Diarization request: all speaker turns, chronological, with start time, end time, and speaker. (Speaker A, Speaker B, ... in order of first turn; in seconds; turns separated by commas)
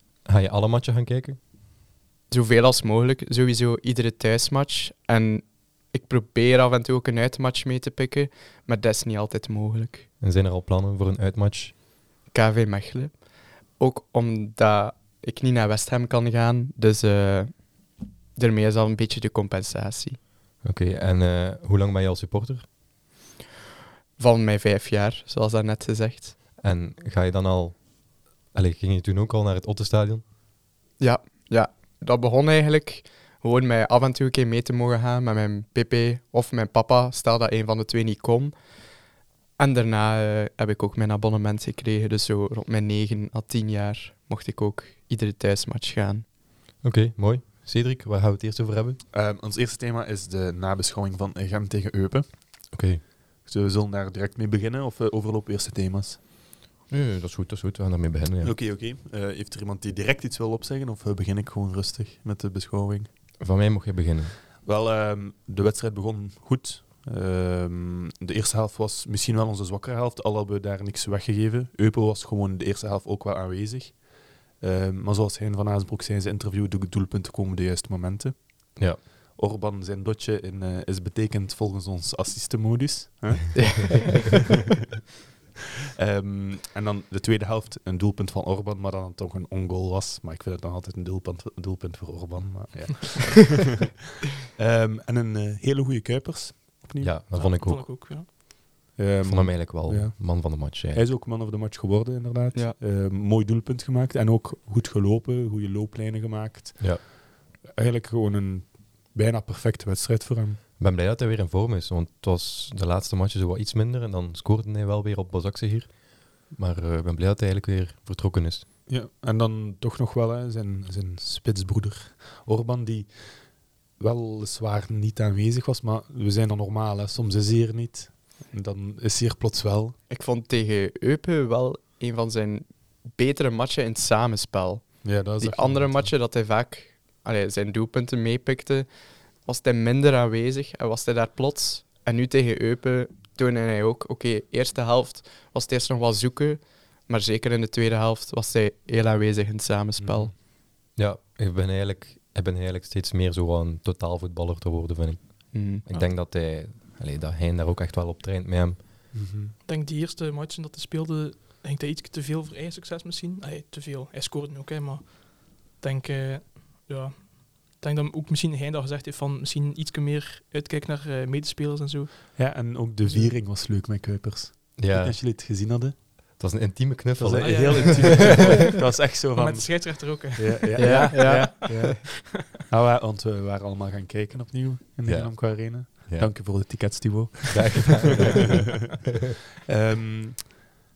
Speaker A: 0.2-1.4, Speaker B: 2.3-10.1, Speaker A: 10.2-11.8, Speaker B: 12.3-20.2, Speaker A: 20.6-22.7, Speaker B: 24.2-26.4, Speaker A: 26.6-30.2, Speaker B: 31.0-39.0, Speaker B: 39.6-46.2, Speaker A: 46.8-49.0, Speaker C: 49.1-52.7, Speaker A: 52.7-53.0, Speaker C: 53.4-56.2, Speaker A: 56.9-58.5, Speaker C: 58.4-63.1, Speaker A: 63.4-64.4, Speaker C: 64.6-84.4, Speaker A: 78.8-79.0, Speaker C: 86.0-97.1, Speaker A: 97.0-97.9, Speaker D: 97.3-98.3, Speaker C: 98.9-110.6, Speaker A: 99.2-101.0, Speaker A: 110.8-118.7, Speaker C: 118.9-129.9, Speaker B: 130.1-150.3, Speaker C: 135.0-136.1, Speaker C: 150.0-150.3, Speaker A: 150.9-158.8, Speaker B: 155.5-155.8, Speaker C: 159.1-159.5, Speaker D: 159.6-172.5, Speaker C: 172.3-175.9, Speaker A: 174.8-175.2, Speaker A: 176.4-178.3, Speaker C: 177.2-188.0, Speaker D: 177.4-182.4, Speaker B: 180.8-182.0, Speaker A: 185.0-186.9, Speaker A: 187.5-189.0, Speaker C: 189.7-190.6